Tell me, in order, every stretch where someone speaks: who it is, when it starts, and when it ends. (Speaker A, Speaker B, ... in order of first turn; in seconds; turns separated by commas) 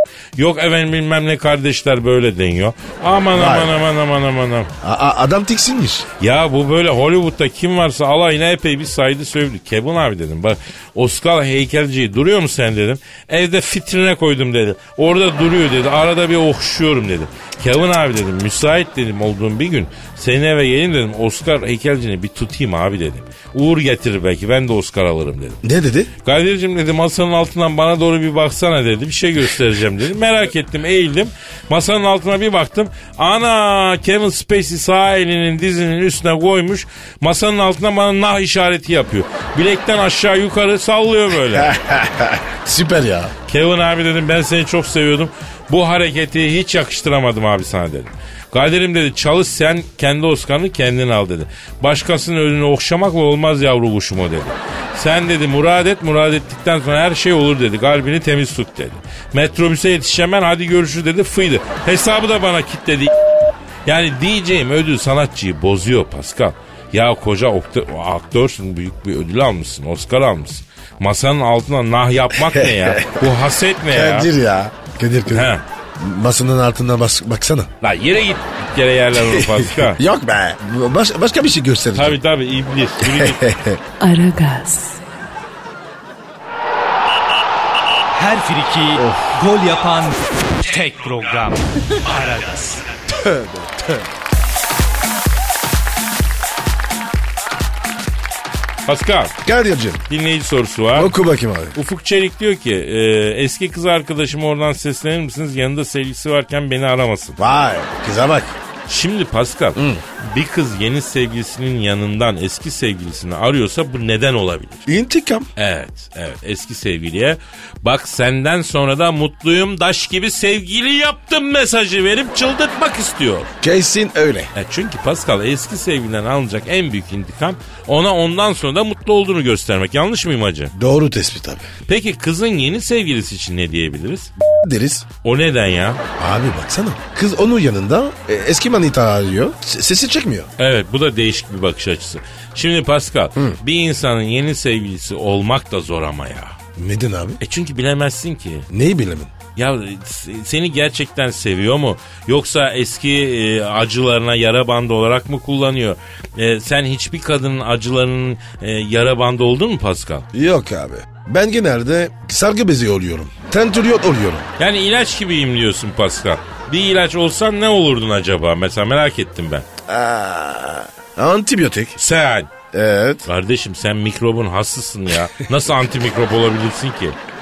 Speaker A: 0.3-4.7, Speaker B: 3.3-3.7, Speaker B: 4.8-6.1, Speaker A: 6.2-25.6, Speaker B: 25.6-26.1, Speaker A: 26.2-41.7, Speaker B: 41.6-43.3, Speaker A: 43.5-63.1, Speaker A: 63.9-74.3, Speaker B: 72.4-73.3, Speaker B: 73.9-77.7, Speaker A: 75.3-75.6, Speaker A: 77.8-80.0, Speaker B: 79.1-82.2, Speaker A: 81.9-83.4, Speaker B: 83.0-83.8, Speaker C: 84.0-85.0, Speaker D: 88.1-92.8, Speaker B: 89.0-89.3, Speaker C: 90.7-92.7, Speaker B: 93.1-94.0, Speaker A: 98.9-99.3, Speaker B: 99.4-100.0, Speaker A: 100.1-101.1, Speaker B: 100.9-101.8, Speaker A: 101.7-107.4, Speaker B: 107.4-108.5, Speaker A: 108.9-114.8, Speaker B: 109.8-110.0, Speaker B: 114.8-115.5, Speaker A: 115.5-123.5, Speaker B: 123.6-124.5, Speaker A: 124.5-130.7, Speaker B: 130.7-131.7, Speaker A: 131.9-134.3, Speaker B: 134.4-135.1, Speaker A: 135.2-136.0, Speaker B: 136.2-140.5, Speaker A: 140.6-146.6, Speaker B: 146.8-147.4, Speaker A: 147.4-148.7, Speaker B: 148.7-149.3, Speaker A: 149.6-160.3, Speaker B: 160.3-164.5, Speaker A: 164.6-169.7, Speaker B: 169.9-172.0, Speaker A: 172.0-172.5, Speaker B: 172.7-173.2, Speaker A: 173.2-177.2